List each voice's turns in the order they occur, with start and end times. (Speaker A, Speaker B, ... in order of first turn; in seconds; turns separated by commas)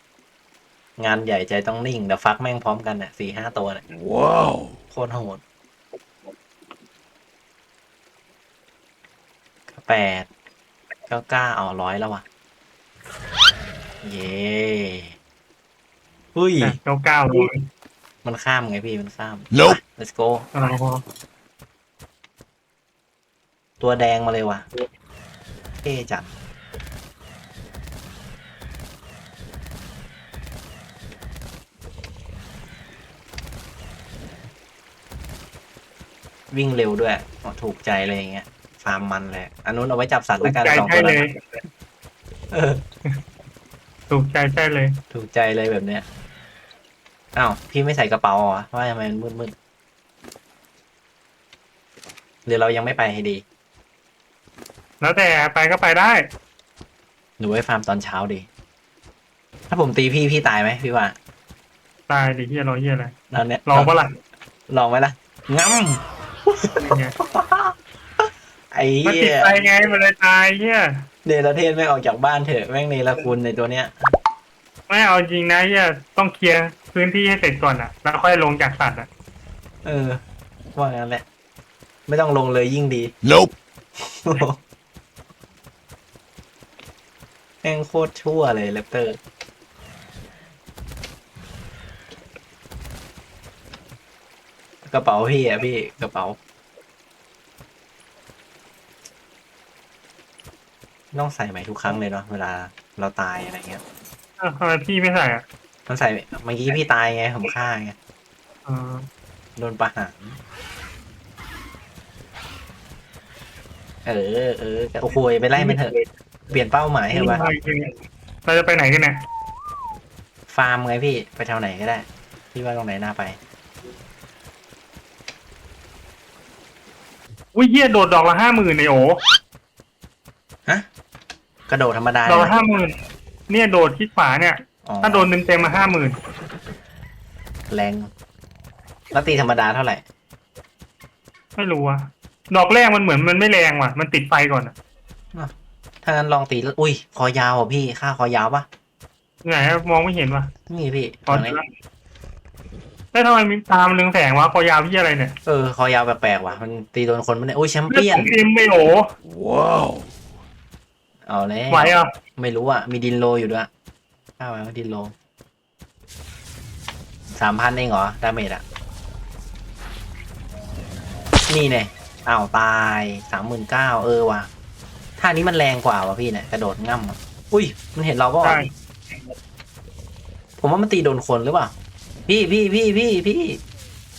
Speaker A: 1.0-3.8, Speaker B: 3.9-4.8, Speaker A: 4.9-5.4, Speaker A: 9.7-10.3, Speaker A: 11.1-12.2, Speaker A: 14.0-15.2, Speaker A: 16.4-16.8, Speaker C: 16.6-17.6, Speaker A: 18.2-20.5, Speaker B: 19.5-19.8, Speaker C: 20.5-21.0, Speaker A: 23.8-24.6, Speaker A: 25.8-26.3, Speaker A: 36.5-41.2, Speaker C: 40.4-41.3, Speaker A: 42.5-42.8, Speaker C: 44.1-45.0, Speaker A: 45.1-46.0, Speaker A: 47.3-49.5, Speaker A: 52.5-53.4, Speaker C: 55.0-56.3, Speaker A: 57.4-58.5, Speaker A: 59.7-61.2, Speaker C: 62.1-64.1, Speaker A: 63.3-63.9, Speaker A: 64.7-69.5, Speaker C: 66.8-67.1, Speaker C: 69.0-71.1, Speaker A: 71.2-73.9, Speaker C: 74.9-79.1, Speaker A: 79.8-80.2, Speaker A: 80.8-81.2, Speaker A: 82.1-83.1, Speaker B: 83.2-83.5, Speaker A: 84.0-84.6, Speaker A: 87.6-89.2, Speaker A: 94.8-96.4, Speaker A: 101.1-103.8, Speaker C: 104.4-105.5, Speaker A: 105.9-108.0, Speaker C: 108.7-109.1, Speaker A: 109.6-110.4, Speaker A: 114.0-115.9, Speaker C: 115.6-116.0, Speaker A: 116.5-117.4, Speaker C: 117.1-117.9, Speaker C: 118.5-119.2, Speaker A: 120.5-123.4, Speaker C: 127.5-129.2, Speaker A: 131.7-132.5, Speaker C: 132.3-132.9, Speaker C: 133.5-136.2, Speaker A: 134.9-135.3, Speaker A: 137.7-138.1, Speaker A: 139.1-140.0, Speaker C: 141.6-144.8, Speaker A: 145.3-148.7, Speaker C: 149.4-150.5, Speaker A: 150.7-151.6, Speaker C: 151.3-151.6, Speaker C: 153.1-155.3, Speaker A: 155.5-158.3, Speaker C: 157.9-159.1, Speaker B: 159.3-160.1, Speaker A: 161.2-163.7, Speaker C: 161.7-162.1, Speaker A: 164.4-165.1, Speaker A: 167.3-168.6, Speaker A: 171.5-174.5, Speaker A: 175.2-178.6, Speaker C: 178.4-178.7, Speaker A: 180.6-181.7, Speaker A: 182.3-183.6